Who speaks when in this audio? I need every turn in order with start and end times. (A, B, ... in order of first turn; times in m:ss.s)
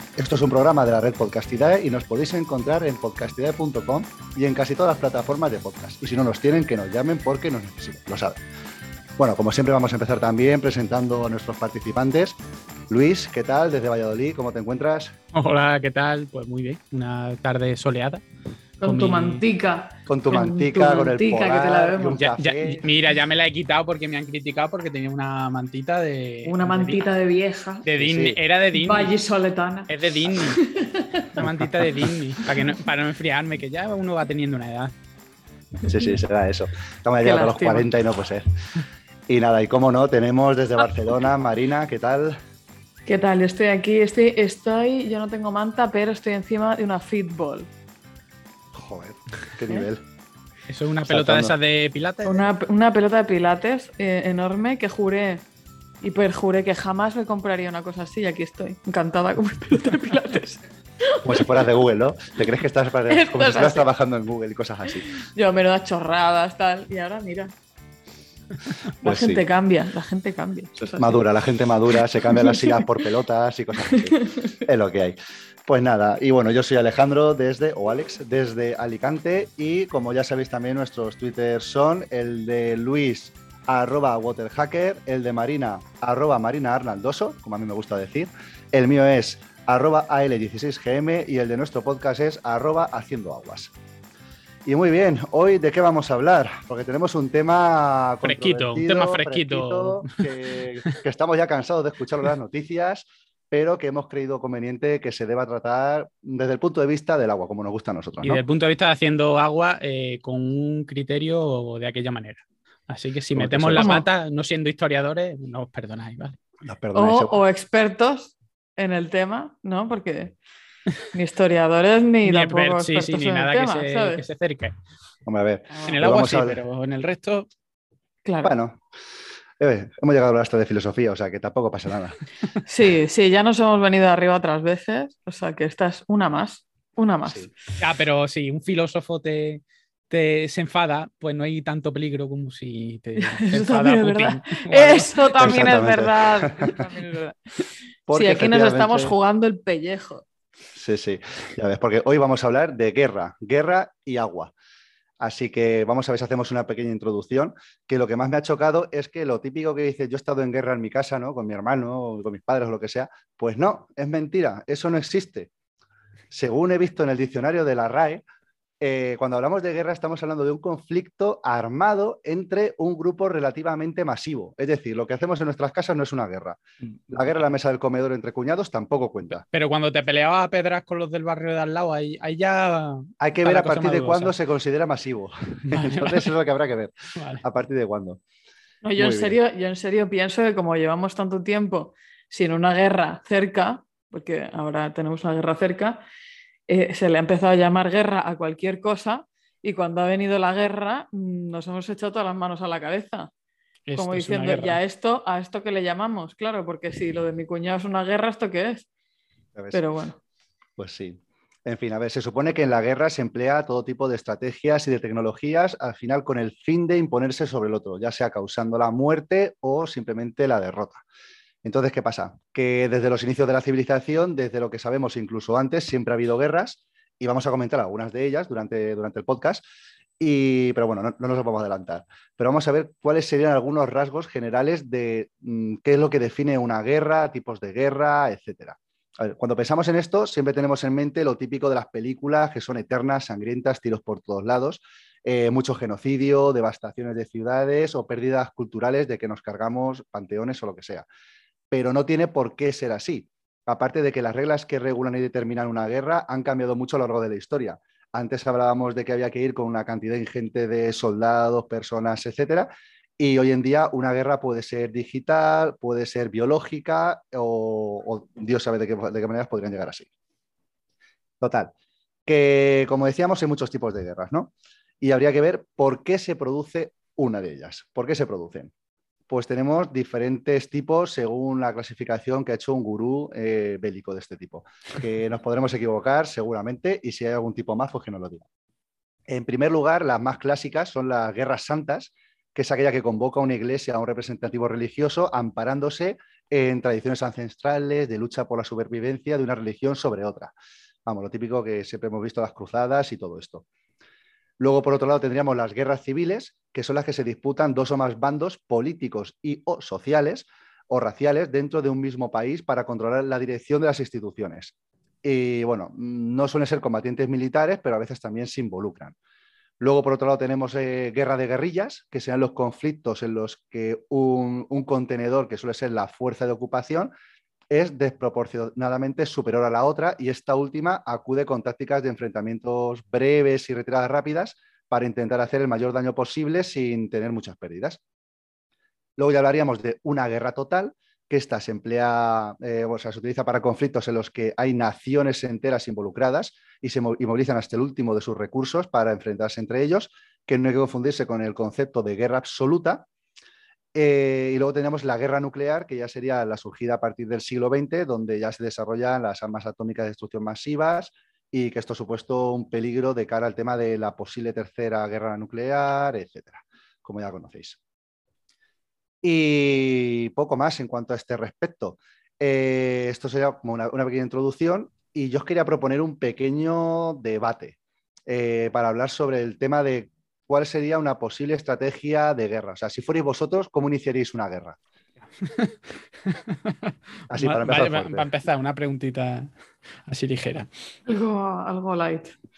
0:00.2-0:08.4 A
0:09.2-0:15.1 A
0:15.3-0:18.2 B
0:18.8-0:19.4 B
0:18.8-0:22.4 C
0:20.1-0:22.8 A
0:22.4-0:27.0 B
0:26.4-0:27.9 C
0:27.8-0:29.1 B
0:28.0-0:28.4 A
0:28.7-0:31.4 C
0:29.9-0:30.6 B
0:31.4-0:34.9 B
0:35.8-0:38.4 A
0:35.9-0:36.2 C
0:37.2-0:37.9 C
0:39.3-0:42.4 A
0:43.0-0:47.7 C
0:48.7-0:50.0 A
0:50.7-0:52.5 B
0:51.1-0:51.5 A
0:52.2-0:55.4 C
0:56.0-1:01.7 C
1:01.2-1:05.2 A
1:03.1-1:03.9 C
1:05.1-1:07.5 C
1:09.0-1:11.2 C
1:09.0-1:09.4 A
1:11.0-1:33.7 A
1:11.9-1:13.0 C
1:13.8-1:14.6 C
1:34.6-1:48.4 A
1:38.2-1:40.2 B
1:48.2-1:56.4 B
1:53.3-1:54.0 A
1:53.8-1:54.0 C
1:56.6-1:57.4 A
1:57.0-2:00.4 C
2:01.1-2:04.2 C
2:02.2-2:04.7 B
2:05.3-2:06.6 A
2:05.8-2:07.5 B
2:08.2-2:08.5 C
2:08.4-2:08.8 A
2:09.6-2:12.2 A
2:12.7-2:17.5 C
2:17.8-2:25.6 B
2:23.2-2:27.4 C
2:25.4-2:26.8 A
2:28.1-2:29.2 A
2:28.1-2:30.2 C
2:30.8-2:34.5 A
2:35.2-2:45.5 A
2:46.3-2:48.2 A
2:48.8-2:59.4 A
2:59.4-3:04.3 B
3:03.2-3:08.2 A
3:05.7-3:06.3 B
3:07.2-3:07.4 B
3:08.8-3:16.0 C
3:09.0-3:09.4 A
3:16.7-3:23.3 C
3:23.9-3:24.8 B
3:24.0-3:28.9 C
3:29.6-3:29.8 A
3:29.7-3:30.2 C
3:30.8-3:41.0 A
3:41.6-3:49.6 A
3:50.2-4:11.1 A
4:11.7-4:30.1 A
4:31.4-4:31.7 A
4:32.2-4:38.7 A
4:39.3-4:48.4 A
4:49.3-5:00.5 A
5:01.1-5:03.6 A
5:04.6-5:19.1 A
5:19.8-5:27.1 A
5:27.7-5:38.0 A
5:39.2-5:53.1 A
5:53.9-6:07.8 A
6:09.2-6:24.8 A
6:25.4-6:29.5 B
6:27.3-6:28.3 A
6:30.1-6:30.7 B
6:31.1-6:32.4 C